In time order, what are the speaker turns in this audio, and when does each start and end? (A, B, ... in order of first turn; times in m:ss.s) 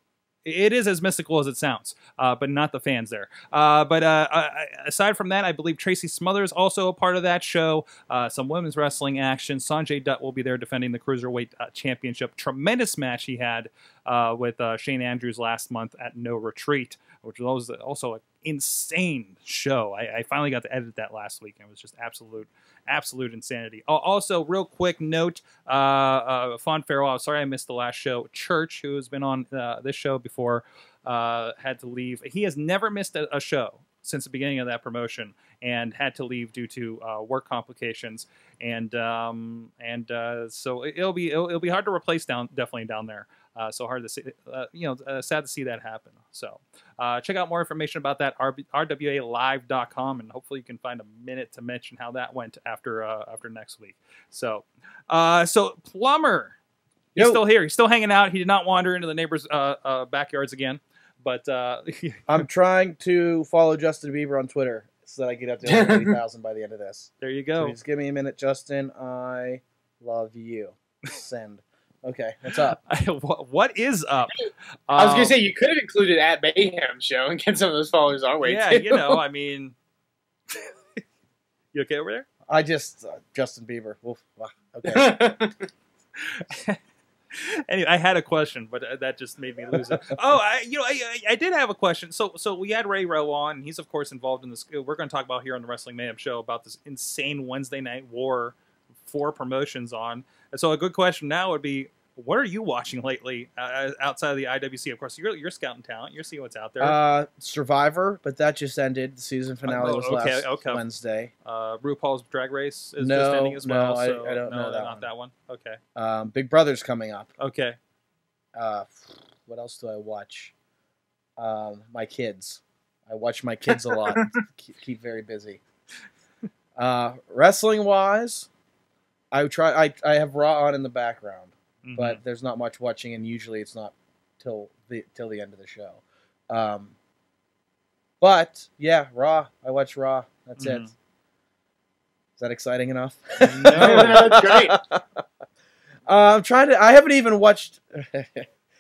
0:00.4-0:56.6 A
0:57.2-1:02.4 A
1:02.3-1:12.8 B
1:05.7-1:06.2 C
1:07.2-1:07.7 A
1:12.8-1:15.4 A
1:15.0-1:19.2 C
1:18.4-1:19.7 A
1:20.5-1:21.0 A
1:21.7-1:22.3 A
1:22.5-1:25.4 B
1:24.9-1:25.6 C
1:26.3-1:26.8 A
1:27.3-1:38.6 A
1:39.1-1:47.0 A
1:46.8-1:51.3 B
1:49.6-1:50.8 A
1:51.4-1:55.8 A
1:53.0-1:55.1 B
1:56.0-1:57.3 B
1:57.4-1:57.8 A
1:58.6-2:00.5 B
2:01.4-2:05.6 B
2:06.8-2:08.5 B
2:09.3-2:16.9 B
2:11.8-2:12.2 A
2:18.2-2:20.9 B
2:20.6-2:20.9 A
2:22.4-2:25.2 B
2:23.5-2:24.2 A
2:23.6-2:24.8 C
2:26.1-2:28.4 B